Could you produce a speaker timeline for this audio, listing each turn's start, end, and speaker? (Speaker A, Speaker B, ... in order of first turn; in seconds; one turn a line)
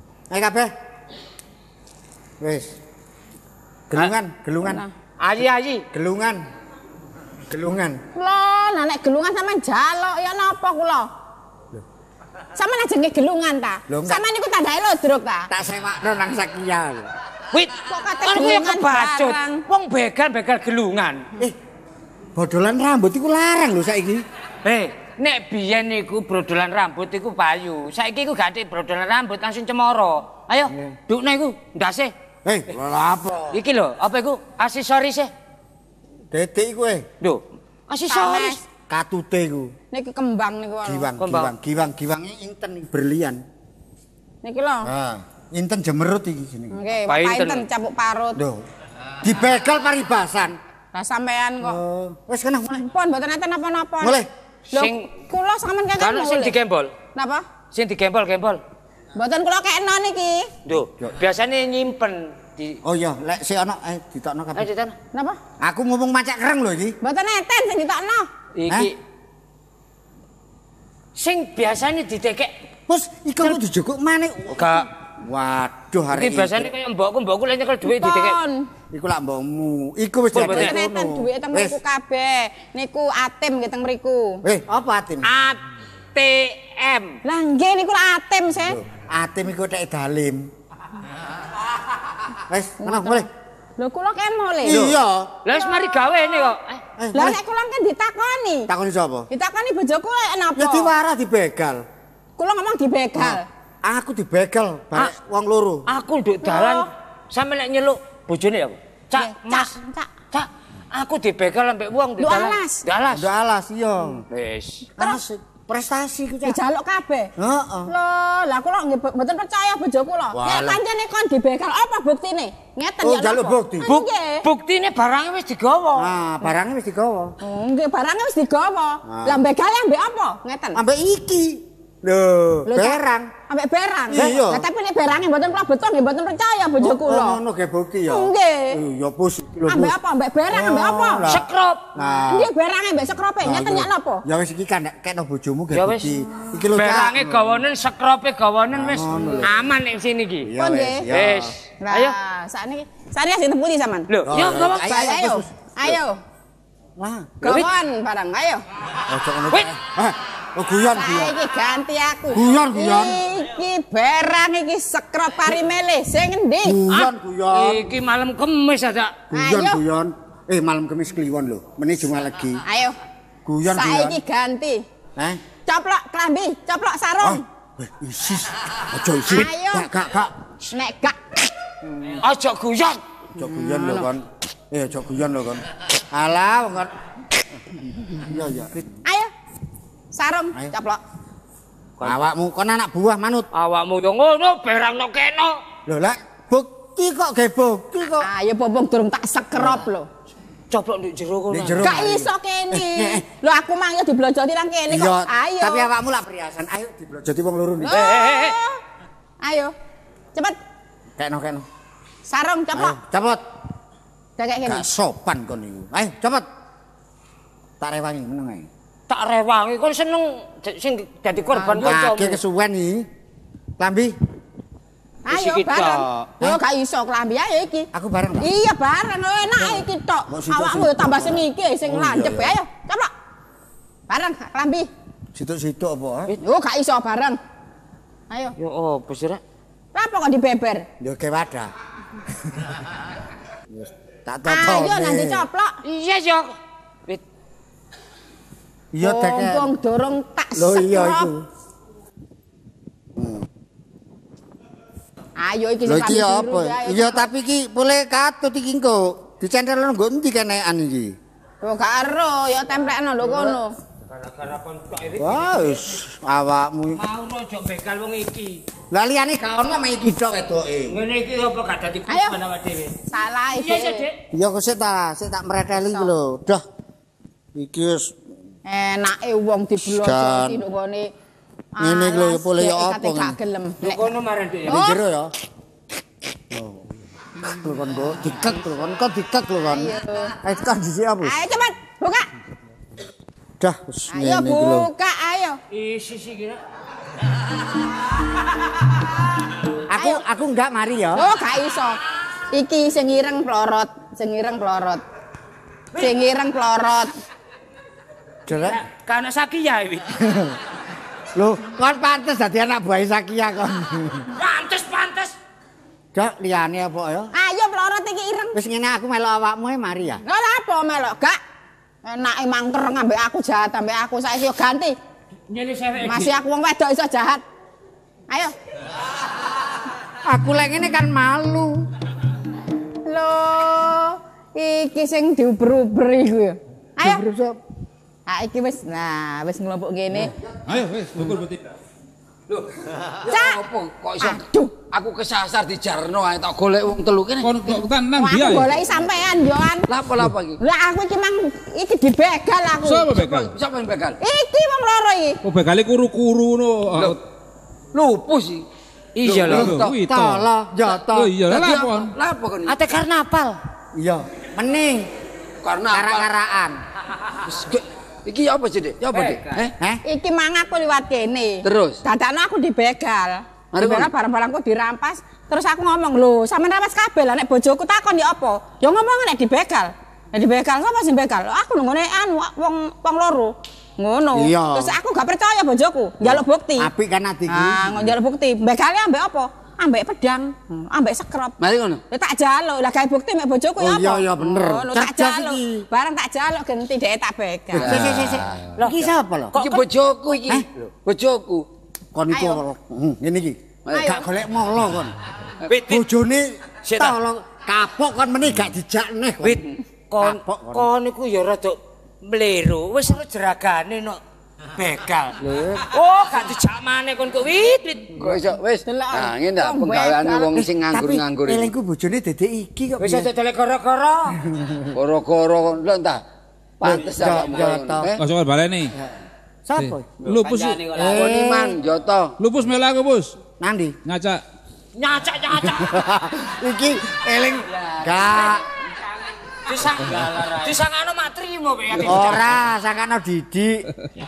Speaker A: 0.3-0.7
Speaker A: 2.4-2.7
Speaker A: 3.9-4.8
Speaker B: 4.6-4.9
Speaker C: 5.2-5.8
Speaker A: 5.9-6.4
Speaker A: 7.5-8.0
Speaker B: 8.2-11.1
Speaker B: 12.6-15.5
Speaker A: 13.9-14.2
Speaker A: 15.5-17.1
Speaker C: 17.5-21.3
Speaker B: 17.9-19.6
Speaker A: 22.4-24.2
Speaker C: 24.6-32.1
Speaker A: 30.7-31.0
Speaker A: 32.4-33.6
Speaker C: 33.5-35.3
Speaker A: 36.3-37.0
Speaker C: 37.2-38.6
Speaker B: 38.1-38.6
Speaker A: 38.7-39.7
Speaker B: 39.9-41.1
Speaker A: 40.8-43.4
Speaker C: 41.2-41.5
Speaker B: 44.4-44.9
Speaker A: 44.8-46.8
Speaker B: 46.7-48.4
Speaker C: 47.0-47.6
Speaker A: 48.4-48.6
Speaker A: 49.2-50.6
Speaker B: 50.9-51.8
Speaker A: 51.6-52.8
Speaker B: 52.7-56.5
Speaker A: 54.0-54.3
Speaker C: 54.7-55.1
Speaker C: 56.0-56.9
Speaker B: 57.1-57.5
Speaker C: 57.7-58.6
Speaker B: 59.1-60.5
Speaker C: 60.6-62.8
Speaker A: 62.8-64.6
Speaker C: 64.5-64.9
Speaker B: 65.1-65.4
Speaker A: 65.6-67.0
Speaker B: 67.0-68.3
Speaker C: 68.5-69.0
Speaker C: 71.2-72.5
Speaker A: 72.9-74.7
Speaker C: 74.5-74.9
Speaker A: 75.2-76.7
Speaker C: 76.1-78.4
Speaker B: 77.8-78.7
Speaker A: 78.9-81.8
Speaker C: 80.3-80.8
Speaker B: 80.5-84.4
Speaker A: 84.4-85.3
Speaker C: 85.2-85.6
Speaker C: 86.1-87.2
Speaker B: 87.2-88.8
Speaker A: 88.6-90.4
Speaker A: 92.5-93.3
Speaker B: 92.8-94.9
Speaker A: 94.6-95.3
Speaker C: 95.4-96.8
Speaker A: 97.0-97.4
Speaker B: 97.1-98.7
Speaker A: 98.7-99.3
Speaker B: 99.3-100.9
Speaker A: 100.5-101.8
Speaker B: 102.4-103.5
Speaker A: 103.2-105.8
Speaker C: 105.9-109.8
Speaker B: 106.4-106.9
Speaker B: 109.1-110.2
Speaker C: 110.3-113.3
Speaker B: 112.2-112.8
Speaker A: 113.1-114.2
Speaker C: 114.3-114.9
Speaker A: 115.0-116.6
Speaker B: 116.4-117.3
Speaker A: 117.4-117.9
Speaker B: 117.9-124.4
Speaker A: 120.3-120.8
Speaker A: 123.0-124.0
Speaker C: 123.8-126.1
Speaker A: 126.0-127.3
Speaker B: 127.4-130.8
Speaker A: 129.0-129.4
Speaker A: 130.7-133.3
Speaker B: 132.7-137.4
Speaker A: 134.1-134.6
Speaker A: 136.8-139.9
Speaker B: 138.1-138.8
Speaker B: 139.7-141.2
Speaker A: 140.5-142.5
Speaker C: 141.2-141.8
Speaker B: 142.3-144.2
Speaker A: 143.4-147.6
Speaker C: 145.7-146.1
Speaker C: 146.7-150.5
Speaker A: 148.7-149.5
Speaker A: 150.4-151.5
Speaker B: 150.6-151.1
Speaker C: 151.1-152.2
Speaker B: 151.8-154.1
Speaker C: 154.1-155.1
Speaker A: 154.2-156.0
Speaker B: 154.9-156.2
Speaker A: 157.0-157.7
Speaker C: 157.4-157.7
Speaker B: 157.4-158.6
Speaker A: 159.1-161.3
Speaker C: 159.5-159.8
Speaker B: 160.9-166.8
Speaker A: 162.3-163.2
Speaker A: 166.6-167.9
Speaker C: 166.9-169.2
Speaker A: 169.3-172.6
Speaker B: 169.3-169.8
Speaker B: 172.6-173.0
Speaker A: 173.4-174.2
Speaker B: 173.7-174.8
Speaker B: 175.6-177.4
Speaker A: 177.2-180.3
Speaker B: 179.3-179.9
Speaker B: 180.7-181.2
Speaker C: 182.0-183.0
Speaker A: 183.4-186.9
Speaker A: 188.2-188.7
Speaker B: 189.0-189.3
Speaker B: 190.1-191.0
Speaker C: 192.0-192.2
Speaker A: 192.0-193.5
Speaker C: 193.5-195.6
Speaker A: 195.9-198.3
Speaker B: 198.2-200.1
Speaker C: 200.7-202.1
Speaker A: 201.5-203.2
Speaker B: 201.8-205.9
Speaker A: 204.9-208.0
Speaker B: 207.8-208.8
Speaker C: 207.9-208.6
Speaker B: 209.4-209.7
Speaker A: 211.2-211.7
Speaker B: 212.2-213.0
Speaker A: 212.7-213.4
Speaker B: 214.4-214.9
Speaker A: 214.6-216.4
Speaker A: 217.8-218.7
Speaker C: 219.1-222.4
Speaker B: 221.6-221.9
Speaker A: 221.8-223.1
Speaker A: 223.8-224.1
Speaker B: 225.2-227.9
Speaker C: 225.3-226.4
Speaker A: 227.9-228.4
Speaker B: 228.4-233.1
Speaker A: 229.6-232.6
Speaker B: 234.1-234.9
Speaker A: 235.3-236.3
Speaker B: 236.4-237.4
Speaker B: 238.3-238.5
Speaker C: 238.6-239.4
Speaker B: 239.9-240.9
Speaker A: 241.0-241.7
Speaker A: 243.7-245.5
Speaker B: 244.5-245.8
Speaker C: 245.8-246.6
Speaker A: 248.9-249.7
Speaker B: 249.0-251.3
Speaker A: 250.6-251.4
Speaker A: 253.2-253.4
Speaker B: 255.4-257.3
Speaker A: 255.8-261.1
Speaker B: 261.6-263.8
Speaker C: 263.2-266.0
Speaker A: 265.2-267.0
Speaker C: 266.9-268.6
Speaker A: 268.9-270.9
Speaker C: 270.9-273.0
Speaker B: 272.1-272.4
Speaker B: 273.1-274.1
Speaker C: 273.5-274.2
Speaker A: 274.3-276.6
Speaker A: 277.5-278.1
Speaker B: 278.6-281.1
Speaker A: 279.9-280.6
Speaker B: 281.8-284.0
Speaker A: 281.8-283.4
Speaker C: 283.8-284.8
Speaker A: 284.7-285.3
Speaker B: 284.7-285.0
Speaker A: 286.5-286.9
Speaker A: 287.4-291.4
Speaker B: 289.6-290.3
Speaker B: 291.2-292.3
Speaker A: 293.6-294.9
Speaker B: 294.1-295.6
Speaker C: 295.7-296.6
Speaker A: 299.9-301.3
Speaker B: 300.0-300.2
Speaker B: 301.1-302.0
Speaker B: 302.5-305.0
Speaker B: 305.9-307.1
Speaker A: 308.5-308.8
Speaker C: 308.5-310.2
Speaker A: 311.3-314.3
Speaker C: 314.3-315.4
Speaker A: 316.1-317.3
Speaker B: 317.3-318.6
Speaker A: 318.5-320.2
Speaker B: 320.2-321.4
Speaker B: 322.0-325.0
Speaker C: 325.5-326.4
Speaker B: 326.0-327.4
Speaker B: 328.3-328.5
Speaker A: 330.2-331.8
Speaker B: 333.0-337.2
Speaker A: 337.0-337.6
Speaker B: 338.3-340.3
Speaker D: 340.6-341.7
Speaker E: 342.5-347.7
Speaker B: 343.3-343.6
Speaker B: 344.2-344.7
Speaker D: 347.4-348.7
Speaker B: 348.2-349.9
Speaker E: 349.9-350.6
Speaker B: 350.6-353.1
Speaker D: 352.8-353.5
Speaker E: 353.1-354.2
Speaker B: 354.2-355.4
Speaker D: 355.4-357.2
Speaker E: 356.9-357.2
Speaker E: 357.9-358.6
Speaker C: 359.1-360.0
Speaker E: 359.2-359.9
Speaker D: 359.4-360.5
Speaker A: 359.5-361.4
Speaker D: 361.1-362.1
Speaker E: 361.5-362.8
Speaker C: 362.6-363.6
Speaker A: 363.9-365.1
Speaker E: 365.6-366.3
Speaker A: 365.9-366.8
Speaker E: 367.5-369.7
Speaker C: 369.1-369.7
Speaker B: 370.0-386.9
Speaker E: 371.6-372.0
Speaker E: 373.7-374.1
Speaker A: 384.3-384.9
Speaker A: 386.2-388.1
Speaker B: 387.5-391.6
Speaker E: 391.6-392.0
Speaker B: 392.1-398.0
Speaker A: 393.8-395.9
Speaker E: 397.7-398.6
Speaker A: 397.8-399.6
Speaker C: 398.8-399.8
Speaker E: 399.5-401.7
Speaker A: 402.1-405.1
Speaker B: 402.3-402.6
Speaker E: 403.8-404.2
Speaker B: 403.9-404.2
Speaker C: 405.6-406.1
Speaker A: 405.9-409.6
Speaker C: 406.8-407.2
Speaker C: 409.4-414.2
Speaker A: 410.2-410.8
Speaker C: 414.7-418.3
Speaker E: 418.2-421.7
Speaker B: 418.9-420.6
Speaker A: 420.9-423.3
Speaker C: 423.0-424.4
Speaker A: 424.5-424.8
Speaker E: 424.9-426.2
Speaker E: 426.8-428.2
Speaker A: 426.8-428.1
Speaker D: 428.2-428.9
Speaker A: 429.6-430.1
Speaker D: 429.8-431.0
Speaker C: 430.4-431.2
Speaker A: 430.9-431.8
Speaker E: 431.1-432.3
Speaker D: 432.4-433.4
Speaker A: 433.6-433.9
Speaker D: 434.1-434.4
Speaker C: 434.9-436.0
Speaker A: 435.8-438.6
Speaker C: 437.7-438.6
Speaker C: 439.6-442.7
Speaker A: 442.0-443.9